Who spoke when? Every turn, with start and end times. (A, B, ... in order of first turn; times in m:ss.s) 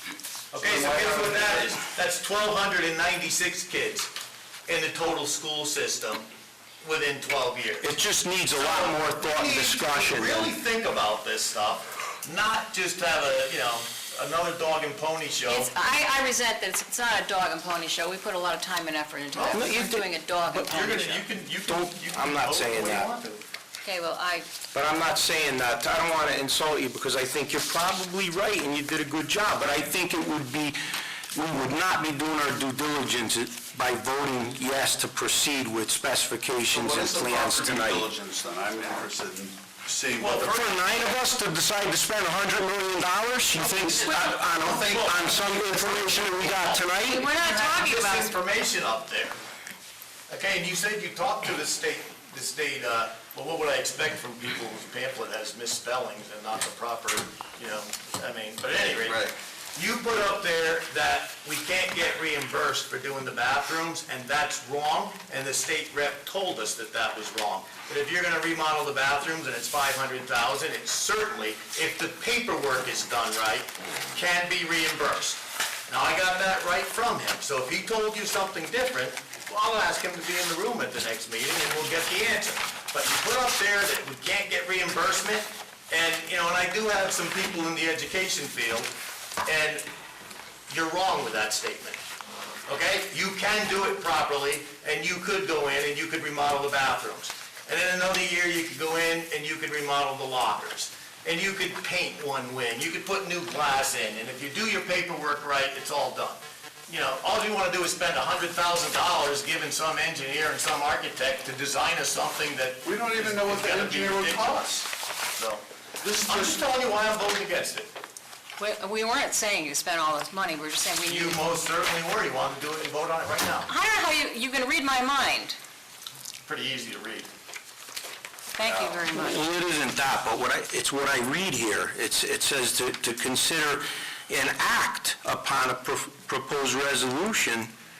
0:00.5-0:04.1 A
0:00.6-0:01.6 B
0:04.7-0:06.2 A
0:06.8-0:07.9 A
0:07.8-0:10.5 B
0:08.5-0:15.7 A
0:15.4-0:21.3 C
0:19.3-0:19.8 A
0:19.5-0:20.6 B
0:20.5-0:23.4 A
0:21.6-0:23.1 B
0:23.8-0:24.6 C
0:24.7-0:30.8 B
0:31.3-0:38.1 B
0:36.7-0:40.9 D
0:40.2-0:40.6 A
0:40.4-0:47.2 B
0:44.0-0:44.3 C
0:44.6-0:49.4 A
0:47.0-0:48.3 C
0:50.3-1:28.9 A
1:29.4-1:29.8 A
1:30.7-1:32.0 A
1:32.6-1:55.6 A
1:52.8-1:54.7 D
1:56.0-1:56.6 D
1:56.2-1:57.9 A
1:58.6-2:01.4 C
2:01.0-2:03.7 A
2:03.6-2:05.6 C
2:06.4-2:07.3 A
2:08.5-2:09.5 C
2:09.0-2:17.7 B